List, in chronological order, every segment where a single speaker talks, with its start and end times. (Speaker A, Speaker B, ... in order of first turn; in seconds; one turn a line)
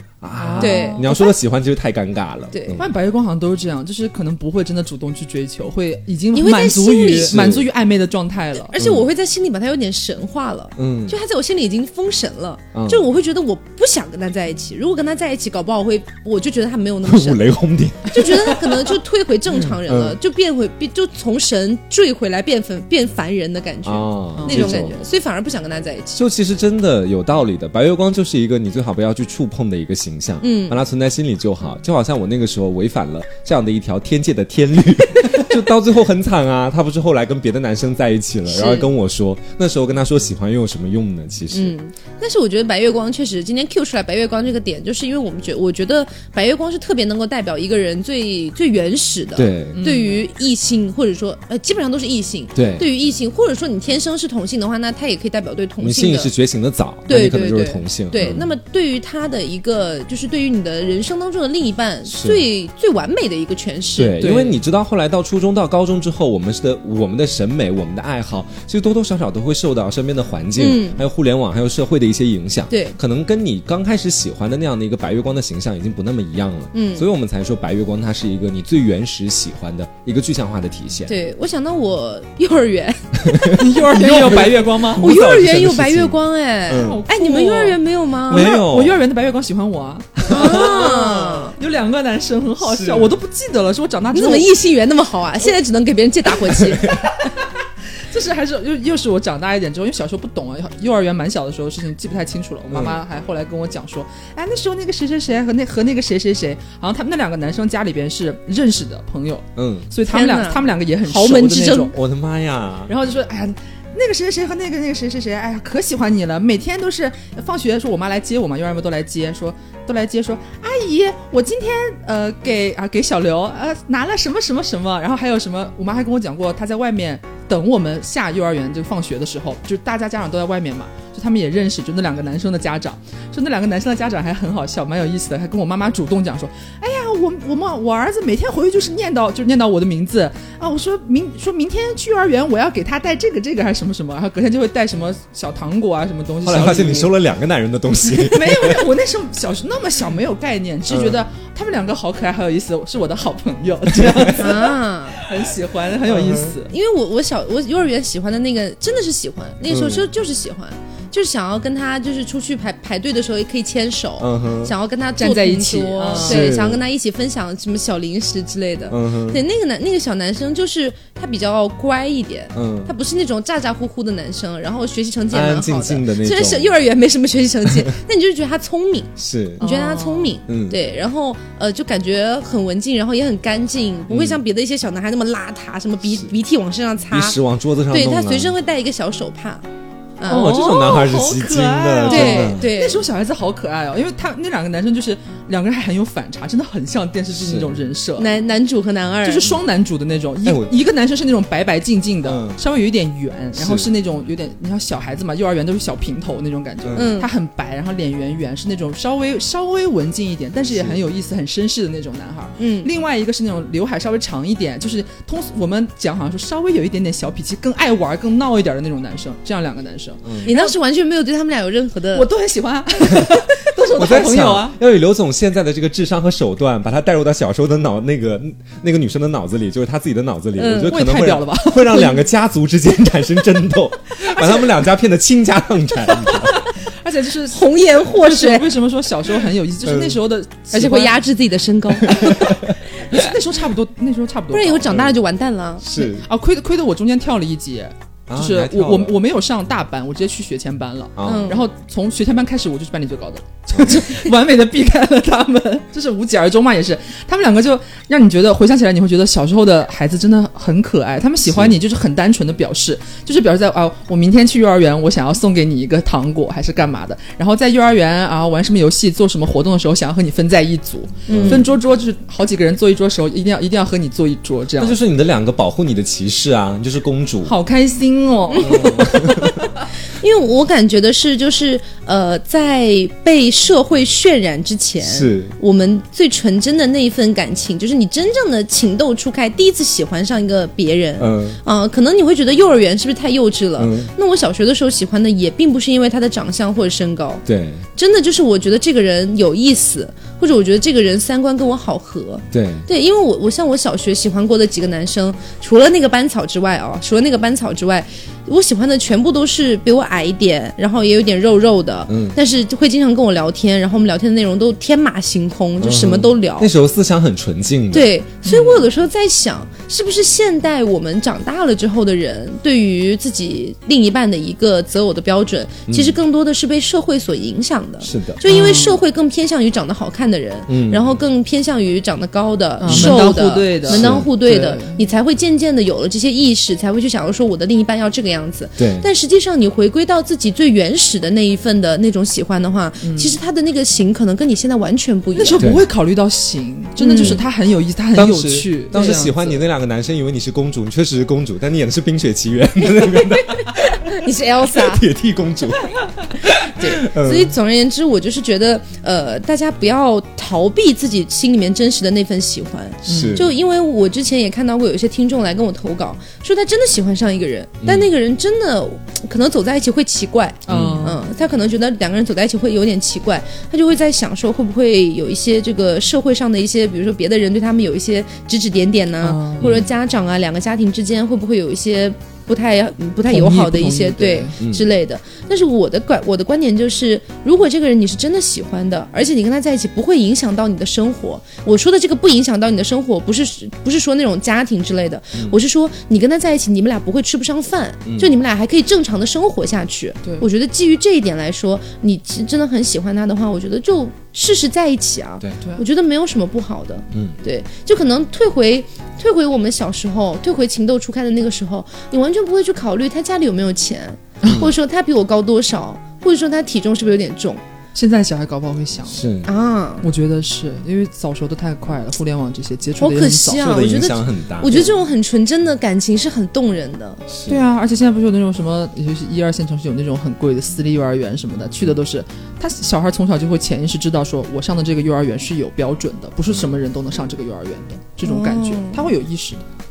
Speaker A: 0.2-2.9
Speaker B: 0.3-1.1
Speaker C: 0.6-1.3
Speaker C: 2.5-2.8
Speaker B: 2.8-8.7
Speaker C: 6.3-7.4
Speaker A: 7.2-7.7
Speaker C: 8.6-17.4
Speaker A: 8.8-9.1
Speaker A: 10.8-11.2
Speaker A: 12.7-13.0
Speaker A: 17.0-18.9
Speaker C: 18.0-26.2
Speaker A: 19.5-20.2
Speaker A: 23.8-25.0
Speaker B: 24.4-24.8
Speaker A: 26.1-41.7
Speaker C: 30.4-30.8
Speaker C: 38.5-38.9
Speaker C: 41.5-56.3
Speaker A: 49.4-49.8
Speaker B: 49.7-50.2
Speaker A: 52.5-52.8
Speaker A: 55.8-58.5
Speaker C: 57.1-64.3
Speaker A: 62.1-62.4
Speaker A: 64.0-81.1
Speaker B: 64.2-64.6
Speaker C: 70.6-71.0
Speaker C: 72.7-73.0
Speaker C: 76.7-77.1
Speaker C: 81.1-83.6
Speaker A: 83.2-87.0
Speaker B: 83.5-85.0
Speaker C: 85.0-88.5
Speaker B: 86.8-94.6
Speaker A: 88.3-89.0
Speaker C: 90.3-91.6
Speaker A: 90.4-90.7
Speaker A: 92.6-93.1
Speaker C: 94.1-97.0
Speaker B: 98.0-112.0
Speaker A: 102.7-103.0
Speaker A: 109.6-109.9
Speaker C: 110.0-111.9
Speaker A: 111.9-112.9
Speaker B: 112.9-147.1
Speaker A: 146.4-148.9
Speaker B: 148.1-156.7
Speaker A: 150.9-151.2
Speaker A: 153.9-154.4
Speaker C: 154.4-155.2
Speaker A: 156.0-156.5
Speaker C: 156.7-189.6
Speaker A: 159.7-160.0
Speaker A: 164.2-164.7
Speaker B: 165.2-166.5
Speaker A: 166.1-166.8
Speaker A: 168.9-169.4
Speaker A: 172.5-172.9
Speaker A: 175.3-176.8
Speaker A: 179.2-179.7
Speaker B: 179.6-180.4
Speaker A: 180.5-180.8
Speaker A: 184.1-184.4
Speaker A: 187.1-188.5
Speaker C: 190.2-190.6
Speaker A: 190.3-192.7
Speaker B: 190.3-198.3
Speaker C: 192.1-193.0
Speaker A: 197.3-197.8
Speaker C: 198.2-199.5
Speaker B: 199.2-220.7
Speaker A: 200.4-200.7
Speaker A: 202.2-202.6
Speaker A: 203.5-203.9
Speaker A: 206.8-207.1
Speaker C: 206.9-207.3
Speaker A: 210.7-211.0
Speaker C: 212.6-212.9
Speaker A: 220.2-220.5
Speaker C: 220.4-222.3
Speaker B: 222.1-224.8
Speaker A: 223.1-223.4
Speaker A: 223.9-236.5
Speaker C: 230.6-231.0
Speaker B: 230.8-232.2
Speaker B: 234.2-234.8
Speaker B: 236.3-241.2
Speaker C: 237.5-238.7
Speaker A: 239.8-240.2
Speaker C: 240.7-242.6
Speaker A: 242.1-242.8
Speaker B: 243.1-245.1
Speaker C: 244.5-246.0
Speaker A: 245.8-246.3
Speaker B: 246.1-275.0
Speaker A: 248.3-249.2
Speaker A: 251.2-251.6
Speaker C: 251.2-251.7
Speaker A: 253.7-254.1
Speaker A: 261.4-261.8
Speaker C: 271.3-271.7
Speaker A: 271.3-271.7
Speaker A: 274.8-277.6
Speaker B: 277.4-279.7
Speaker C: 278.5-279.3
Speaker A: 278.6-279.6
Speaker C: 280.1-297.4
Speaker A: 285.0-285.5
Speaker A: 291.2-291.6
Speaker A: 293.8-294.1
Speaker A: 297.4-297.8
Speaker C: 297.9-316.7
Speaker A: 302.5-302.9
Speaker A: 312.1-312.4
Speaker A: 315.8-318.1
Speaker C: 317.9-345.7
Speaker B: 318.4-318.8
Speaker A: 325.9-326.2
Speaker A: 328.0-328.4
Speaker B: 328.4-329.0
Speaker A: 330.7-331.1
Speaker B: 332.8-335.0
Speaker A: 332.9-333.3
Speaker A: 333.9-334.3
Speaker A: 338.8-339.1
Speaker B: 343.0-343.4
Speaker B: 345.3-349.6
Speaker A: 345.6-345.9
Speaker C: 347.0-347.4
Speaker A: 347.1-347.4
Speaker A: 348.1-354.0
Speaker C: 348.9-349.2
Speaker C: 353.0-355.0
Speaker A: 354.7-357.5
Speaker C: 356.7-417.6
Speaker A: 363.0-363.5
Speaker B: 363.1-363.4
Speaker A: 367.8-368.1
Speaker A: 370.7-371.1
Speaker B: 370.7-371.2
Speaker B: 379.2-379.7
Speaker A: 379.6-379.9
Speaker B: 383.3-384.5
Speaker A: 384.6-384.9
Speaker A: 398.0-398.3
Speaker A: 407.1-407.4
Speaker A: 414.4-414.7
Speaker B: 417.9-419.2
Speaker A: 419.1-419.5
Speaker C: 419.4-420.1
Speaker B: 420.0-423.7
Speaker C: 423.0-427.2
Speaker A: 423.6-424.8
Speaker A: 427.3-427.6
Speaker B: 427.5-439.6
Speaker C: 438.2-439.1